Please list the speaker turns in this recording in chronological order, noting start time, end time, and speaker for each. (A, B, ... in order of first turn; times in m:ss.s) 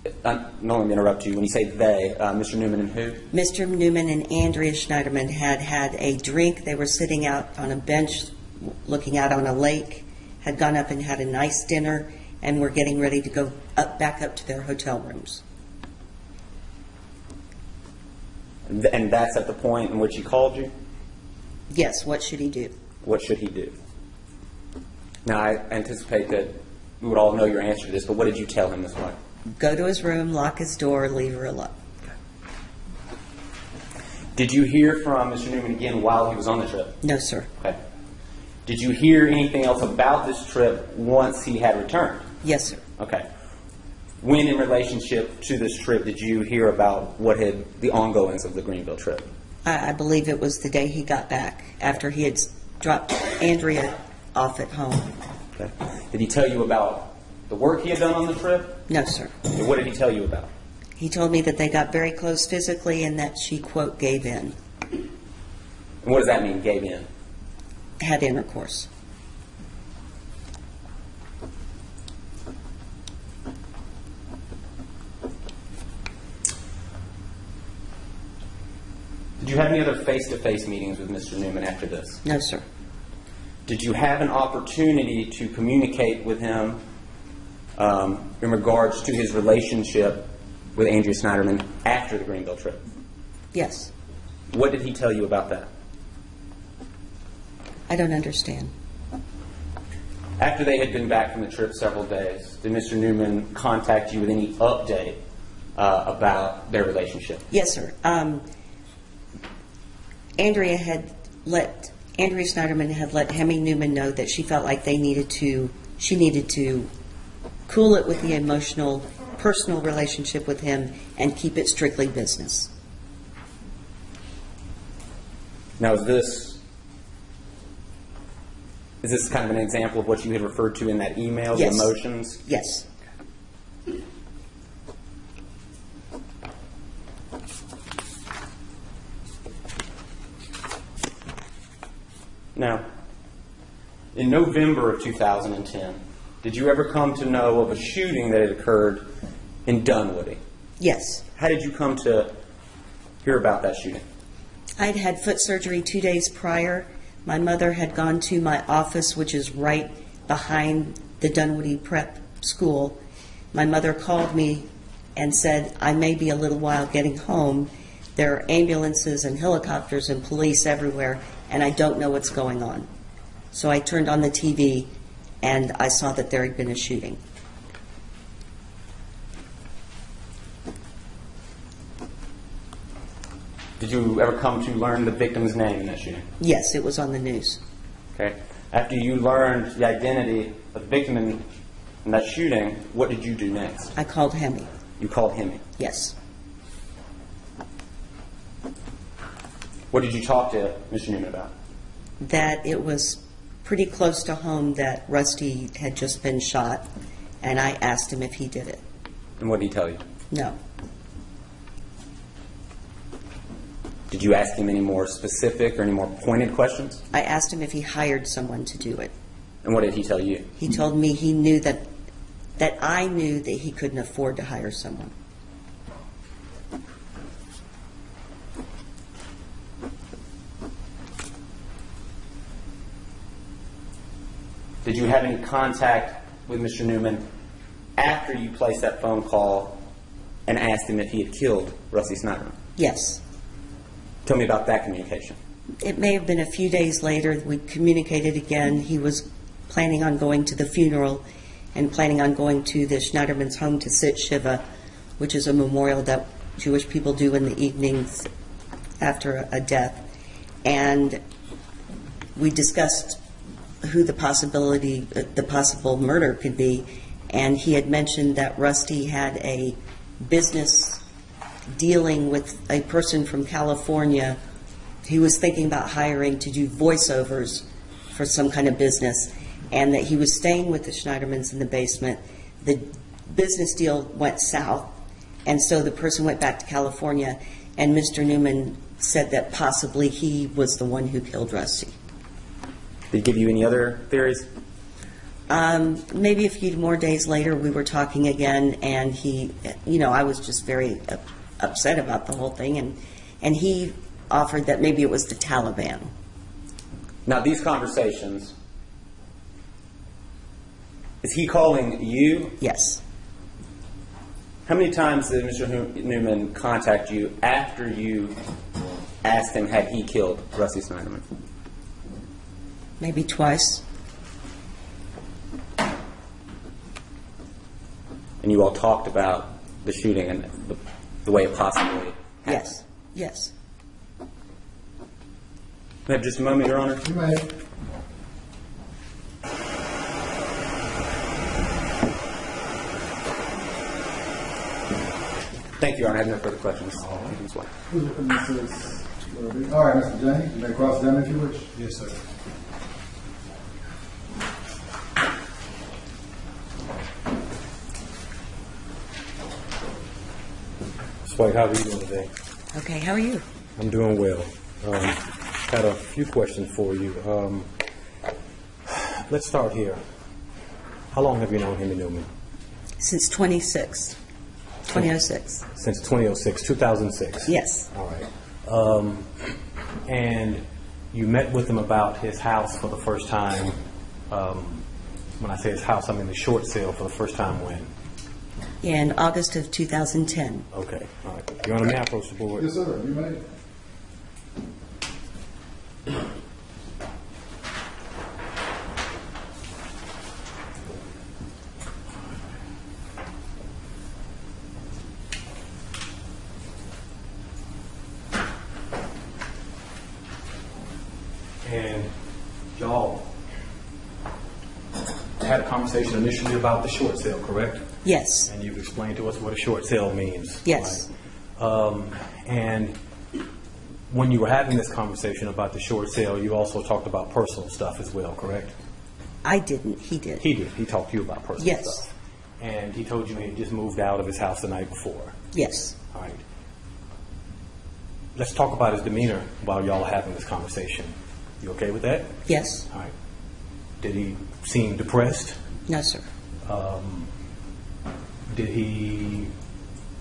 0:00.2-0:03.2 A
0:03.3-0:15.4 B
0:18.7-0:20.7 A
0:21.7-0:22.7 B
0:23.0-0:23.8 A
0:25.2-0:29.2 A
0:29.6-0:31.7 B
0:34.4-0:37.0 A
0:37.0-0:37.5 B
0:38.7-0:42.3 A
0:42.4-0:42.8 B
0:43.0-0:43.3 A
0:44.2-0:49.3 A
0:49.6-0:55.1 B
0:55.6-0:58.8 A
0:58.9-0:59.3 B
0:59.4-1:00.5 A
1:01.0-1:04.6 B
1:06.0-1:07.1 A
1:08.0-1:08.9 B
1:19.4-1:22.2 A
1:22.2-1:22.6 B
1:23.7-1:26.8 A
1:27.8-1:32.8 A
1:33.5-1:33.9 B
1:34.5-1:35.7 A
1:37.9-1:38.7 B
1:40.4-1:45.2 A
1:45.8-1:47.5 A
1:47.5-1:48.4 B
1:50.4-1:56.9 B
1:57.7-2:02.7 B
2:05.8-2:06.6 A
2:09.0-2:12.4 A
2:11.5-2:11.9 B
2:12.4-2:12.8 B
2:22.6-2:22.8 A
2:24.1-2:29.1 A
2:29.7-2:30.4 A
2:30.8-2:31.2 B
2:31.4-2:32.3 A
2:33.2-2:34.0 A
2:34.8-2:43.0 B
2:43.5-2:52.9 B
2:53.5-2:54.9 B
2:55.4-2:57.2 B
3:03.8-3:06.3 A
3:06.4-3:07.6 B
3:08.2-3:11.5 A
3:12.0-3:13.9 A
3:14.0-3:14.7 B
3:15.0-3:15.6 A
3:15.8-3:16.1 B
3:19.9-3:21.5 A
3:22.2-3:26.9 B
3:27.4-3:28.8 B
3:29.4-3:30.0 A
3:30.3-3:30.6 B
3:34.1-3:37.0 A
3:37.1-3:39.1 B
3:39.6-3:40.5 A
3:40.6-3:41.8 B
3:42.6-3:45.1 B
3:54.8-3:57.3 A
3:58.0-3:59.8 A
4:00.5-4:02.6 A
4:02.8-4:03.2 B
4:04.2-4:05.4 A
4:05.8-4:14.6 B
4:15.2-4:18.3 B
4:19.0-4:20.0 B
4:20.6-4:21.2 B
4:22.4-4:23.2 B
4:23.8-4:31.0 B
4:31.7-4:34.4 B
4:35.0-4:44.9 B
4:45.4-4:52.0 B
4:53.1-4:54.5 A
4:55.5-5:06.1 B
5:07.3-5:08.5 A
5:11.2-5:12.6 A
5:12.6-5:13.0 B
5:14.7-5:18.4 A
5:19.2-5:21.2 A
5:23.0-5:23.8 B
5:28.4-5:32.7 A
5:32.5-5:33.5 B
5:36.1-5:37.0 A
5:37.0-5:37.5 C
5:45.8-5:47.7 A
5:47.0-5:47.3 D
5:47.9-5:51.7 C
5:51.8-5:52.2 D
6:01.2-6:02.3 D
6:02.7-6:03.4 B
6:03.8-6:07.7 D
6:08.9-6:10.0 D
6:11.1-6:12.3 D
6:13.0-6:14.2 B
6:14.9-6:15.6 B
6:15.7-6:19.5 D
6:17.5-6:17.9 B
6:20.1-6:23.8 D
6:24.3-6:24.8 D
6:25.4-6:27.9 D
6:28.8-6:30.7 B
6:30.7-6:32.7 D
6:32.6-6:33.4 C
6:51.6-6:52.1 D
6:52.8-6:53.3 D
6:55.4-6:57.8 D
6:58.0-6:58.5 B
6:58.5-7:03.0 D
7:00.6-7:01.1 B
7:04.1-7:08.7 D
7:09.4-7:10.4 B
7:10.4-7:15.4 D
7:11.6-7:12.1 B
7:15.5-7:16.0 B
7:16.1-7:16.4 D
7:18.4-7:22.4 D
7:22.5-7:22.9 B
7:24.0-7:25.6 D
7:25.9-7:26.3 B
7:26.6-7:27.3 D
7:28.5-7:29.5 D